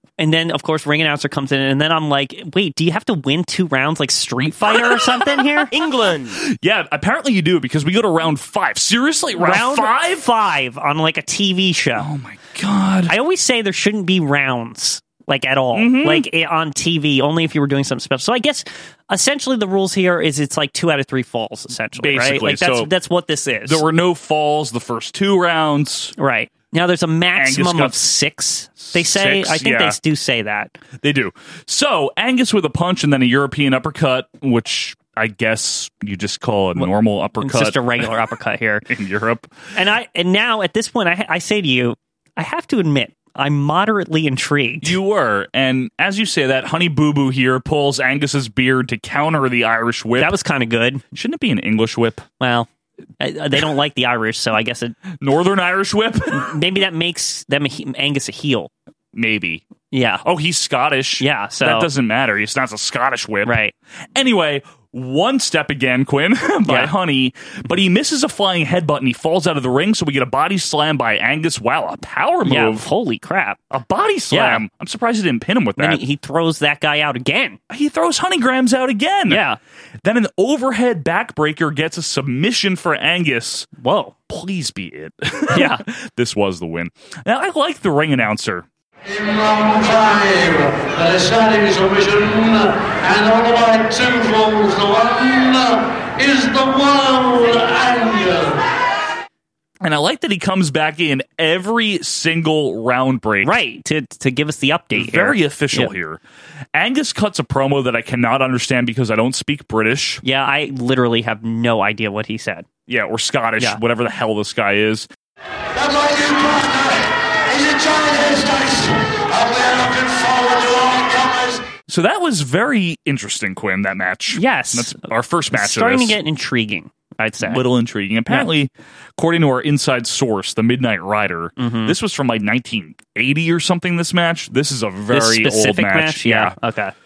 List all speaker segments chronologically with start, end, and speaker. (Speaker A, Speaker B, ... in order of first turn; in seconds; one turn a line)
Speaker A: 0.2-5.7
Speaker B: 4.7-10.2
Speaker A: 9.4-12.1
Speaker B: 12.0-13.1
Speaker A: 13.1-23.8
Speaker B: 15.7-16.3
Speaker B: 22.0-22.9
Speaker B: 23.6-26.1
Speaker A: 26.2-30.7
Speaker B: 27.4-28.0
Speaker B: 28.8-29.9
Speaker B: 31.0-38.1
Speaker A: 36.8-38.9
Speaker B: 38.9-39.5
Speaker A: 39.7-44.9
Speaker B: 44.8-50.4
Speaker A: 50.2-51.0
Speaker B: 51.1-52.2
Speaker A: 52.4-52.7
Speaker A: 53.2-55.0
Speaker B: 55.2-56.5
Speaker A: 56.3-58.7
Speaker B: 59.1-59.6
Speaker A: 59.9-60.2
Speaker B: 60.2-63.6
Speaker A: 61.2-61.9
Speaker A: 63.4-63.7
Speaker B: 64.2-72.9
Speaker A: 66.7-66.9
Speaker A: 72.4-73.6
Speaker B: 73.7-76.0
Speaker A: 74.3-74.6
Speaker A: 75.8-77.6
Speaker B: 77.7-79.4
Speaker A: 79.3-79.6
Speaker B: 80.0-83.7
Speaker A: 83.8-84.2
Speaker B: 84.3-88.7
Speaker A: 85.5-85.8
Speaker C: 89.1-98.6
Speaker B: 99.8-103.5
Speaker A: 103.4-105.9
Speaker B: 104.9-106.2
Speaker B: 106.7-110.2
Speaker A: 110.2-112.7
Speaker B: 112.9-115.1
Speaker C: 115.7-121.7
Speaker B: 121.9-126.2
Speaker A: 124.3-127.6
Speaker B: 127.4-136.6
Speaker A: 131.6-131.9
Speaker A: 135.1-136.9